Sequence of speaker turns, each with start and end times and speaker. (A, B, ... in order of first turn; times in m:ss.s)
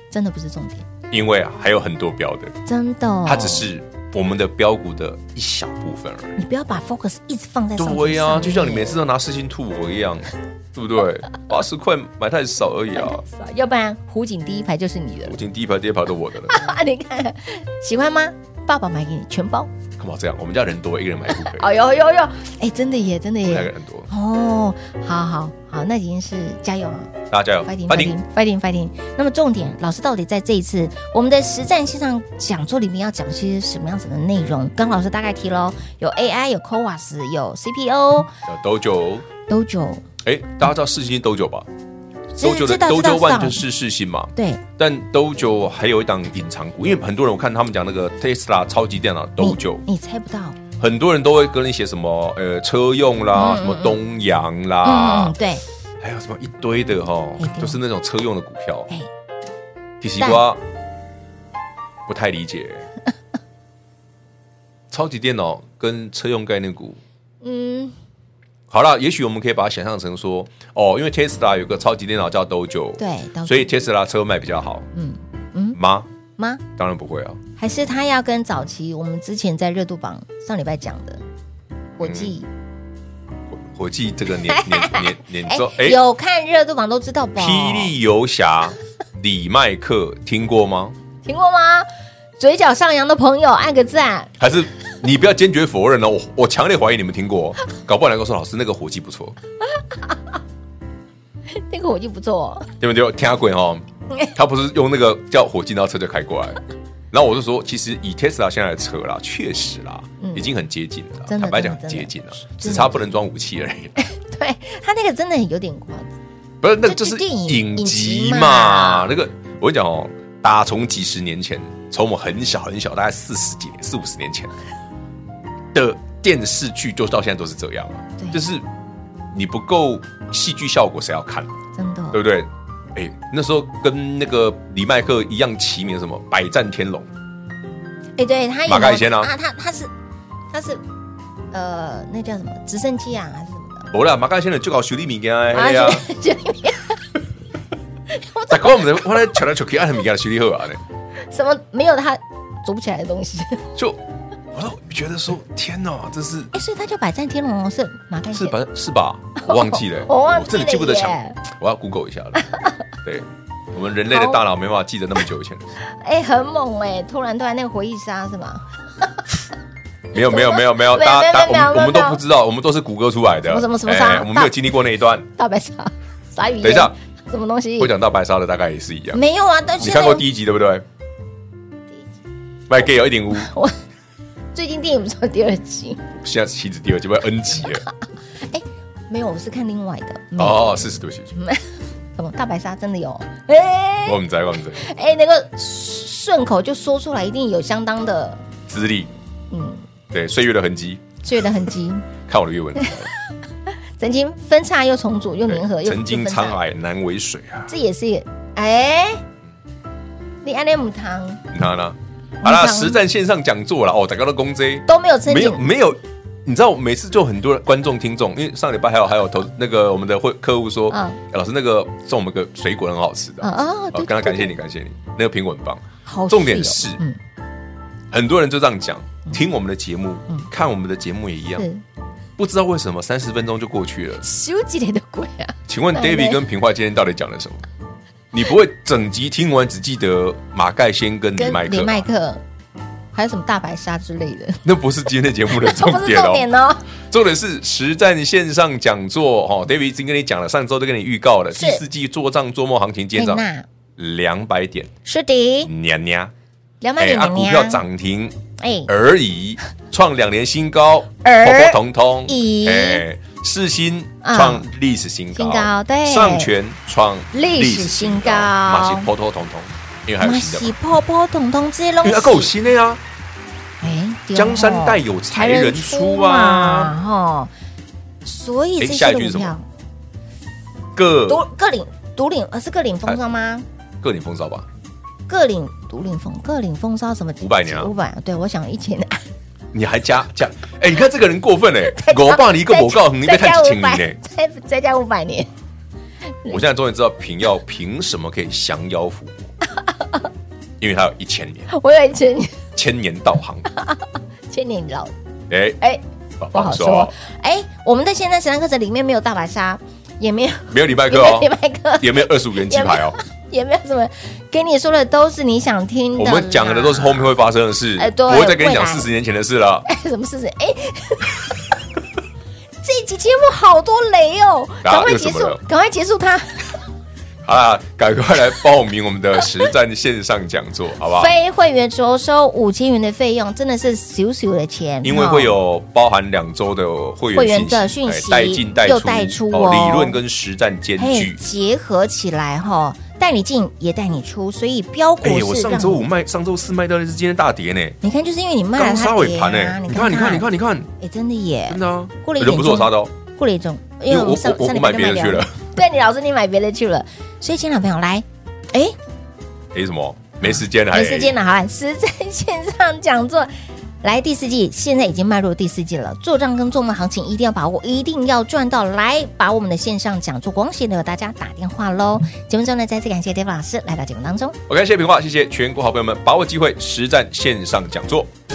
0:00.1-0:00.8 A
0:01.1-0:02.6 B
0:02.6-0:03.7 A
0:03.2-0:06.4 B
0:06.4-0:09.0 A
0:07.8-0:13.2 B
0:12.9-0:15.4 A
0:15.2-0:16.6 B
0:16.5-0:19.7 A
0:20.0-0:21.7 B
0:21.3-0:27.1 A
0:23.4-0:24.1 B
0:27.3-0:28.1 B
0:27.6-0:38.3 A
0:38.4-0:39.2 B
0:39.5-0:40.0 A
0:40.2-0:41.7 B
0:42.3-0:43.6 A
0:42.4-0:49.8 B
0:44.4-0:44.6 A
0:49.4-0:50.6 A
0:50.8-0:55.3 B
0:53.3-0:54.0 A
0:54.8-0:55.6 A
0:56.0-0:58.9 B
0:57.4-0:57.8 A
1:00.0-1:00.6 B
1:02.1-1:02.9 B
1:04.9-1:07.0 B
1:07.4-1:07.9 A
1:08.7-1:14.9 B
1:13.0-1:13.7 A
1:14.9-1:15.8 A
1:15.7-1:16.1 B
1:16.4-1:16.6 A
1:16.8-1:17.4 B
1:17.6-1:21.2 A
1:22.0-1:22.5 A
1:22.0-1:22.3 B
1:23.5-1:26.0 B
1:24.5-1:27.9 A
1:27.4-1:30.9 B
1:31.2-1:31.9 A
1:32.4-1:34.3 A
1:34.4-1:39.4 B
1:41.5-1:42.7 A
1:42.8-1:46.6 B
1:47.1-1:54.0 B
1:50.2-1:50.5 A
1:51.2-1:53.1 A
1:54.0-1:56.1 A
1:56.6-2:04.5 B
1:56.8-1:59.1 A
2:05.7-2:08.6 B
2:08.2-2:08.4 A
2:09.3-2:11.5 B
2:11.8-2:12.2 A
2:12.1-2:17.1 B
2:18.2-2:19.9 A
2:18.6-2:19.3 B
2:20.5-2:20.8 A
2:21.5-2:23.9 A
2:23.9-2:26.0 B
2:25.5-2:27.0 A
2:28.1-2:29.1 A
2:28.5-2:30.8 B
2:31.3-2:33.7 A
2:33.8-2:36.5 B
2:36.5-2:38.6 A
2:38.3-2:42.5 B
2:39.4-2:41.4 A
2:43.0-2:45.7 B
2:44.1-2:44.4 A
2:45.8-2:49.2 A
2:50.1-2:55.3 B
2:50.2-2:52.2 A
2:53.4-2:54.5 A
2:55.4-2:57.9 A
2:56.6-2:56.9 B
2:57.8-2:59.2 B
2:59.1-3:00.2 A
2:59.8-3:00.8 B
3:02.7-3:03.5 B
3:03.3-3:03.7 A
3:04.5-3:06.0 A
3:06.1-3:07.8 B
3:08.4-3:10.8 A
3:10.4-3:11.3 B
3:11.3-3:14.2 A
3:14.0-3:14.9 B
3:14.8-3:18.4 A
3:18.7-3:19.1 B
3:19.5-3:19.8 A
3:20.1-3:21.0 B
3:21.2-3:22.0 A
3:22.3-3:23.1 B
3:24.0-3:26.6 A
3:25.5-3:27.7 B
3:27.7-3:29.2 A
3:30.4-3:31.4 A
3:31.5-3:47.0 B
3:32.4-3:33.0 A
3:34.9-3:35.6 A
3:40.9-3:41.2 A
3:43.4-3:44.5 A
3:46.0-3:47.2 A
3:48.1-3:51.7 B
3:51.6-3:51.8 A
3:52.4-3:54.2 B
3:54.2-3:56.4 A
3:55.7-3:57.6 B
3:58.3-4:02.0 B
4:01.3-4:02.4 A
4:03.1-4:04.6 A
4:04.6-4:06.5 B
4:05.5-4:06.8 A
4:07.1-4:13.4 B
4:11.5-4:11.8 A
4:13.1-4:13.6 A
4:14.0-4:14.9 B
4:15.0-4:15.7 A
4:15.6-4:16.3 B
4:16.8-4:17.8 A
4:17.0-4:18.4 B
4:18.6-4:18.9 A
4:18.9-4:30.7 B
4:21.2-4:23.0 A
4:24.2-4:24.6 A
4:25.3-4:26.5 A
4:27.3-4:29.1 A
4:30.2-4:32.5 A
4:32.0-4:33.0 B
4:33.8-4:37.5 A
4:34.3-4:36.9 B
4:38.2-4:39.6 A
4:38.8-4:39.6 B
4:40.9-4:41.4 B
4:41.3-4:43.6 A
4:44.0-4:44.7 B
4:45.3-4:49.2 A
4:47.4-4:47.9 B
4:49.7-4:54.2 B
4:51.9-4:55.5 A
4:56.5-4:59.5 B
5:00.8-5:01.7 B
5:01.7-5:02.6 A
5:02.7-5:03.7 B
5:04.5-5:05.1 A
5:05.5-5:05.8 B
5:06.4-5:07.1 B
5:06.5-5:17.3 A
5:10.7-5:13.2 B
5:16.2-5:19.9 B
5:18.0-5:19.1 A
5:19.9-5:21.5 A
5:22.8-5:26.8 A
5:24.8-5:25.6 B
5:27.4-5:31.3 B
5:31.1-5:35.6 A
5:35.0-5:41.4 B
5:37.3-5:40.2 A
5:41.0-5:46.0 A
5:45.2-5:48.0 B
5:48.0-5:59.0 A
5:48.8-5:50.9 B
5:51.7-5:53.1 B
5:54.1-5:55.6 B
5:59.7-6:01.4 B
6:00.4-6:03.5 A
6:04.0-6:14.6 A
6:14.7-6:18.3 B